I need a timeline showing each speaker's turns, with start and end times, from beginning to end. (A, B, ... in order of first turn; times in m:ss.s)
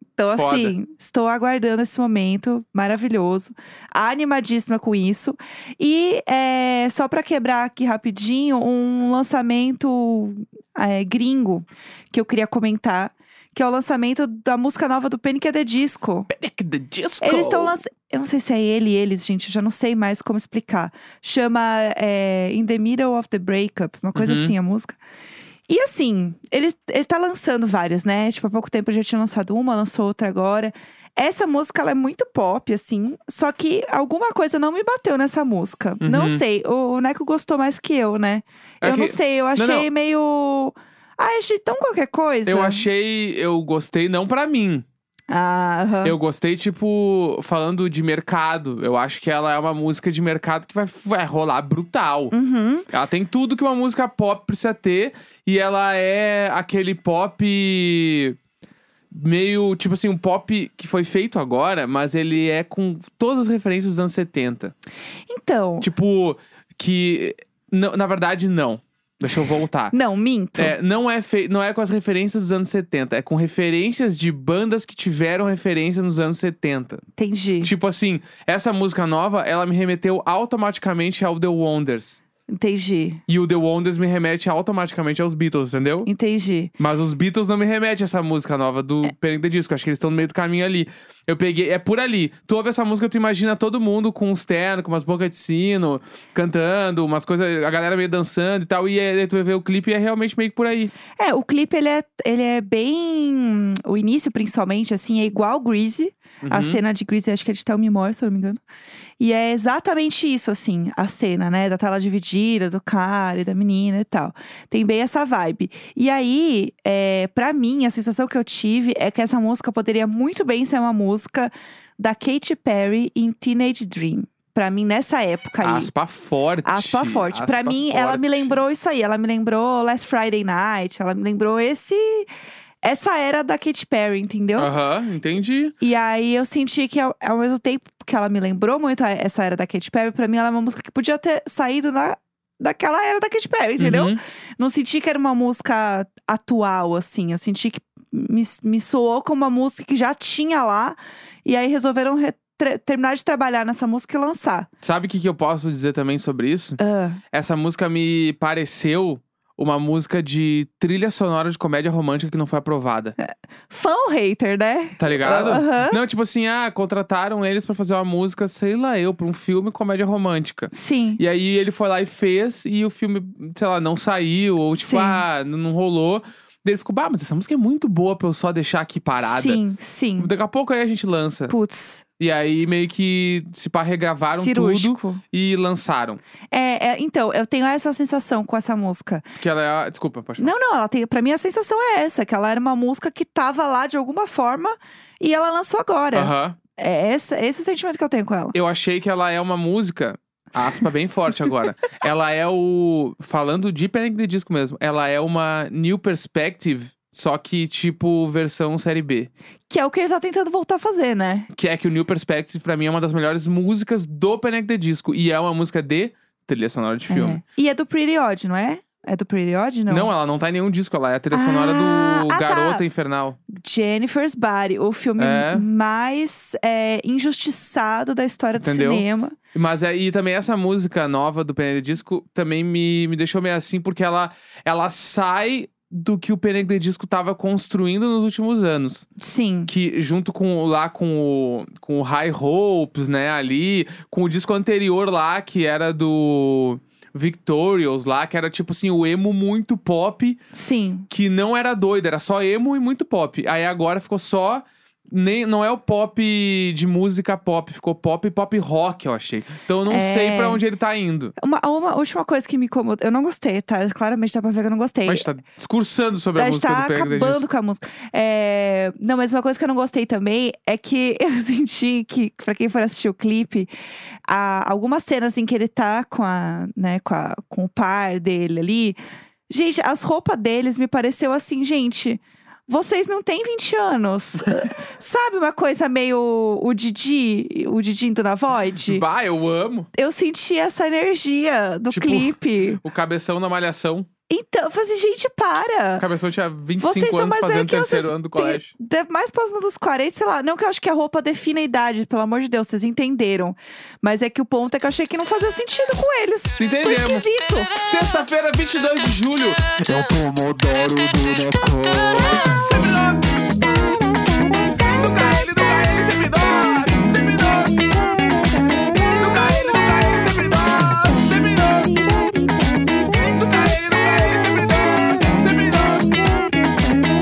0:00.2-0:16.3 A
0:00.3-0:00.8 B
0:16.3-0:17.8 B
0:17.2-0:25.0 A
0:24.1-0:24.5 B
0:25.7-0:42.8 A
0:36.0-0:36.4 B
0:38.8-0:39.9 B
0:42.4-0:44.8 B
0:45.3-0:46.2 A
0:46.0-0:52.3 B
0:52.3-0:52.9 A
0:52.9-0:58.4 B
0:59.1-1:04.7 B
1:05.3-1:05.9 A
1:05.8-1:09.9 B
1:09.9-1:10.7 A
1:10.6-1:17.0 B
1:17.2-1:17.7 A
1:17.6-1:22.2 B
1:22.5-1:23.2 A
1:23.3-1:26.1 B
1:26.0-1:26.7 A
1:26.8-1:40.9 B
1:41.2-1:48.6 A
1:46.4-1:46.8 B
1:49.2-2:05.9 A
2:05.6-2:08.6 B
2:06.6-2:12.3 A
2:12.8-2:14.7 A
2:14.6-2:15.7 B
2:15.8-2:34.7 A
2:23.8-2:24.2 B
2:34.8-2:36.8 B
2:36.8-2:37.2 A
2:37.3-2:43.2 B
2:43.2-2:46.0 A
2:45.0-2:59.6 B
2:50.7-2:51.2 A
2:54.8-2:55.2 A
2:59.2-3:00.3 A
3:00.2-3:01.5 B
3:01.5-3:02.0 A
3:02.2-3:06.2 B
3:04.3-3:05.2 A
3:06.5-3:09.2 A
3:09.4-3:10.5 B
3:10.4-3:18.5 A
3:16.1-3:16.6 B
3:18.5-3:29.3 B
3:29.7-3:31.5 A
3:31.5-3:37.4 B
3:37.1-3:40.1 A
3:39.9-3:43.4 B
3:41.3-3:42.8 A
3:43.5-3:49.4 A
3:45.2-3:45.7 B
3:48.6-3:59.1 B
3:59.2-3:59.7 A
3:59.7-4:10.4 B
4:10.5-4:11.1 A
4:11.1-4:21.3 B
4:19.9-4:20.6 A
4:21.4-4:25.2 A
4:25.1-4:27.4 B
4:26.4-4:33.7 A
4:34.3-4:49.0 A
4:48.8-4:49.9 B
4:49.9-4:52.8 A
4:51.9-4:54.1 B
4:54.3-4:56.0 A
4:56.0-4:58.7 B
4:56.8-5:07.7 A
5:06.6-5:09.6 B
5:09.8-5:12.7 C
5:12.1-5:13.4 B
5:13.6-5:15.4 A
5:14.9-5:17.7 B
5:18.1-5:19.6 A
5:19.2-5:21.9 B
5:21.2-5:23.4 A
5:23.3-5:26.2 B
5:26.2-5:27.0 A